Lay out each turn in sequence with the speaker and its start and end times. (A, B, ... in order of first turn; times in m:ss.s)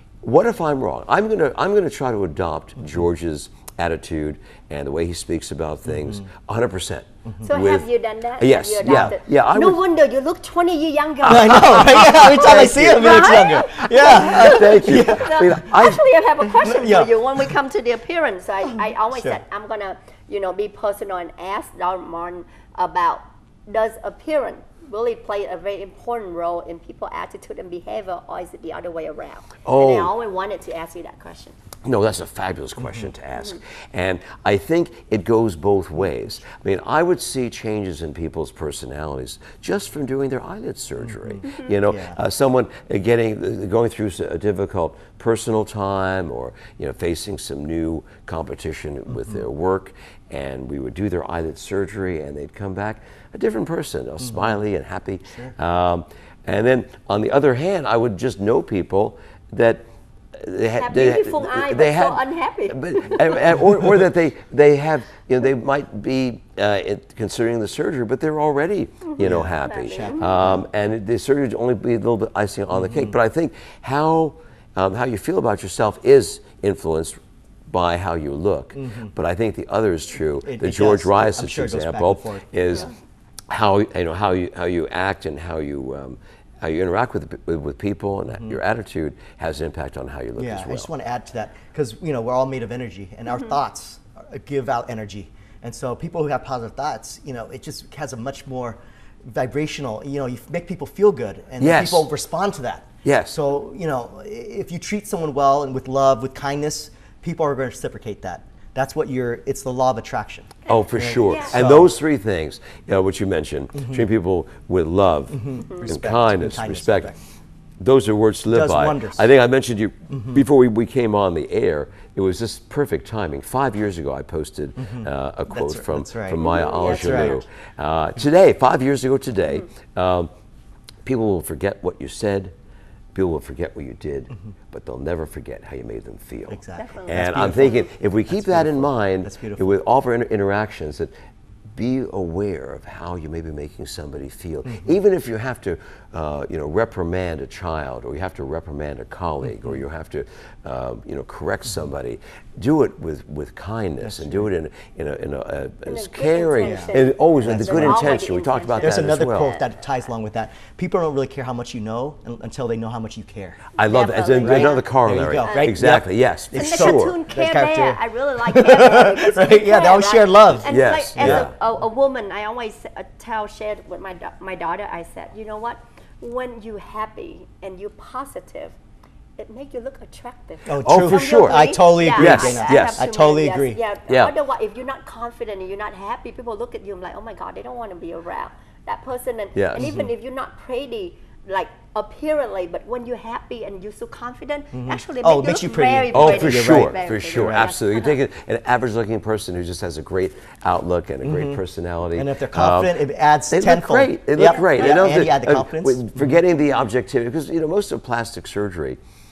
0:00.2-0:07.9 A
0:07.4-0:31.6 B
0:08.4-0:09.8 A
0:11.2-0:15.7 C
0:11.2-0:16.0 A
0:16.4-0:17.1 C
0:19.1-0:19.4 C
0:29.6-0:30.1 A
0:31.8-1:22.9 A
0:41.1-0:42.2 C
1:00.8-1:03.5 B
1:09.2-1:10.6 C
1:09.6-1:10.3 B
1:12.7-1:13.2 C
1:18.7-1:19.1 C
1:20.4-1:22.5 C
1:23.5-1:30.9 A
1:30.4-1:51.9 C
1:41.6-1:42.1 A
1:43.0-1:43.4 A
1:50.6-1:57.1 A
1:50.7-1:51.5 B
1:55.3-1:57.2 C
1:57.8-2:10.3 A
1:58.5-1:59.2 C
2:00.1-2:00.4 C
2:04.8-2:07.4 C
2:06.4-2:07.4 B
2:11.0-2:12.5 A
2:13.1-2:21.1 A
2:16.5-2:19.8 C
2:16.8-2:17.9 B
2:21.7-2:39.5 A
2:34.0-2:34.5 C
2:35.8-2:39.7 B
2:36.6-2:38.3 C
2:38.8-2:43.6 C
2:43.8-2:47.2 A
2:43.8-2:45.8 B
2:44.4-2:51.5 C
2:46.5-2:58.8 B
2:50.6-2:51.5 A
2:59.4-3:18.2 B
3:00.6-3:03.8 C
3:00.8-3:03.1 A
3:04.1-3:04.3 A
3:09.6-3:09.9 A
3:09.8-3:10.1 C
3:14.7-3:17.7 C
3:16.1-3:23.0 A
3:21.2-3:21.6 C
3:22.1-3:26.4 C
3:23.5-3:29.0 A
3:24.4-3:25.0 B